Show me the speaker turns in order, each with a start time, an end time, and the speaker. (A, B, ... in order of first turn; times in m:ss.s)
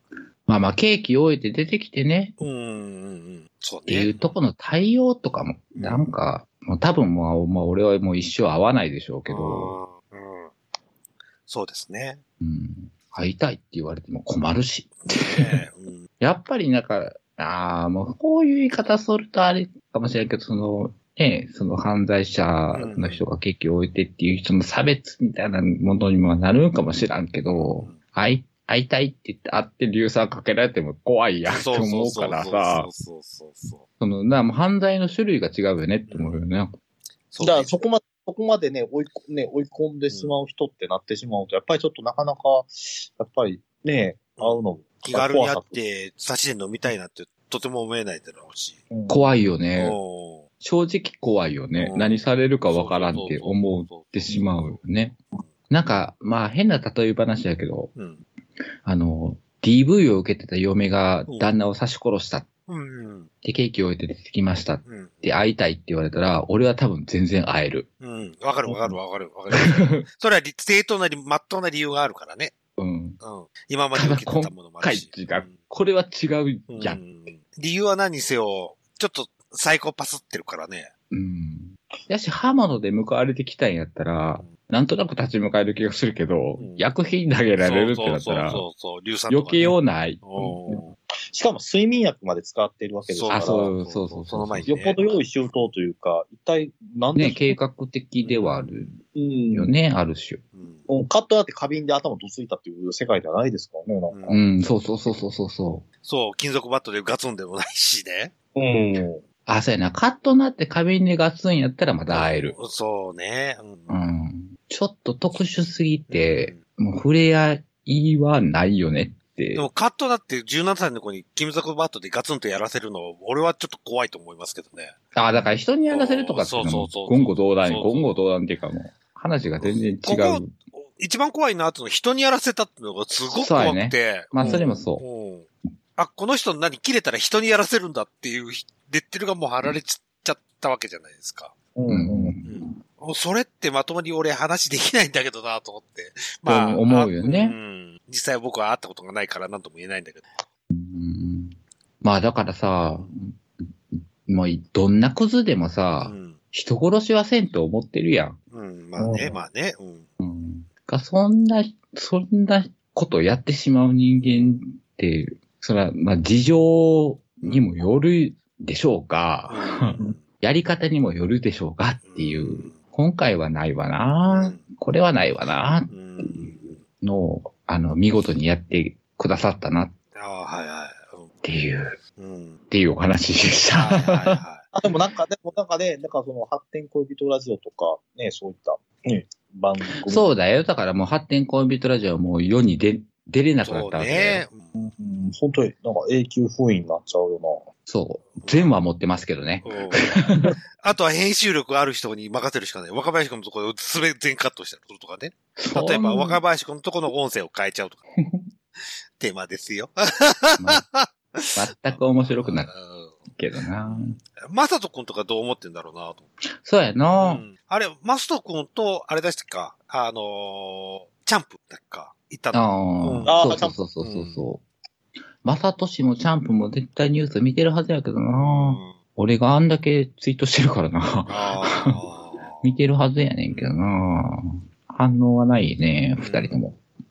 0:00.5-0:02.3 A
0:02.4-0:04.3 B
0:03.9-0:09.8 A
0:05.8-0:06.1 B
0:09.3-0:10.5 B
0:11.5-0:12.2 B
0:12.4-0:15.6 A
0:15.0-0:16.1 B
0:16.2-0:32.9 A
0:22.7-0:23.2 B
0:27.5-0:28.0 B
0:31.4-0:33.8 B
0:34.0-0:36.7 A
0:36.1-0:36.4 B
0:37.3-0:37.7 B
0:37.4-0:45.8 C
0:44.4-0:48.8 B
0:48.9-0:49.3 C
0:49.1-0:50.0 A
0:49.8-0:50.4 B
0:50.6-0:57.9 A
0:51.7-0:54.8 B
0:58.0-0:58.2 B
0:58.8-1:02.5 A
1:02.7-1:03.3 B
1:03.4-1:07.9 A
1:04.8-1:05.3 B
1:08.0-1:12.5 B
1:08.7-1:09.0 A
1:09.5-1:10.0 A
1:12.8-1:13.2 A
1:13.2-1:15.5 B
1:13.9-1:17.0 A
1:16.7-1:20.9 B
1:21.1-1:28.6 A
1:26.6-1:26.9 B
1:27.6-1:30.9 B
1:29.3-1:30.6 A
1:30.7-1:33.7 C
1:33.1-1:35.1 B
1:33.3-1:34.7 A
1:34.7-1:37.6 C
1:37.2-1:39.0 A
1:38.2-1:38.9 B
1:39.1-1:39.7 C
1:39.5-1:40.4 A
1:40.5-1:40.8 B
1:40.9-1:44.2 C
1:44.1-1:44.4 B
1:44.3-1:45.8 A
1:46.0-1:48.3 B
1:48.6-1:49.2 C
1:49.4-1:52.5 A
1:52.1-1:53.9 B
1:53.9-1:59.7 A
1:56.1-1:56.6 B
1:59.5-2:05.0 B
2:05.1-2:10.5 A
2:05.9-2:08.1 B
2:09.6-2:15.4 B
2:13.3-2:15.0 A
2:14.4-2:14.8 C
2:16.0-2:21.5 B
2:21.8-2:22.4 C
2:21.9-2:22.6 A
2:22.4-2:30.3 B
2:26.4-2:27.6 A
2:30.7-2:38.4 A
2:36.0-2:36.4 B
2:38.5-2:40.0 B
2:39.0-2:39.4 C
2:40.2-2:59.9 A
2:44.2-2:44.6 B
2:49.5-2:50.2 B
2:52.0-2:52.8 B
2:54.2-2:54.6 B
2:55.9-2:56.8 B
3:00.1-3:01.3 B
3:01.4-3:02.0 A
3:02.2-3:02.6 B
3:02.7-3:04.4 A
3:03.7-3:04.6 B
3:04.7-3:10.3 C
3:10.0-3:14.4 A
3:13.6-3:14.6 B
3:14.7-3:17.7 C
3:17.9-3:20.6 A
3:18.4-3:18.7 B
3:19.6-3:20.1 B
3:20.8-3:28.0 B
3:25.6-3:26.4 A
3:29.2-3:33.2 B
3:30.6-3:30.8 A
3:31.5-3:32.7 A
3:33.3-3:34.2 A
3:33.8-3:36.2 B
3:36.6-3:37.4 A
3:37.2-3:43.4 B
3:42.5-3:44.6 A
3:43.2-3:43.8 C
3:44.0-3:44.4 B
3:45.4-3:52.0 A
3:48.3-3:48.9 B
3:51.3-3:52.7 B
3:52.6-3:56.8 A
3:53.5-3:53.7 B
3:56.2-3:56.6 B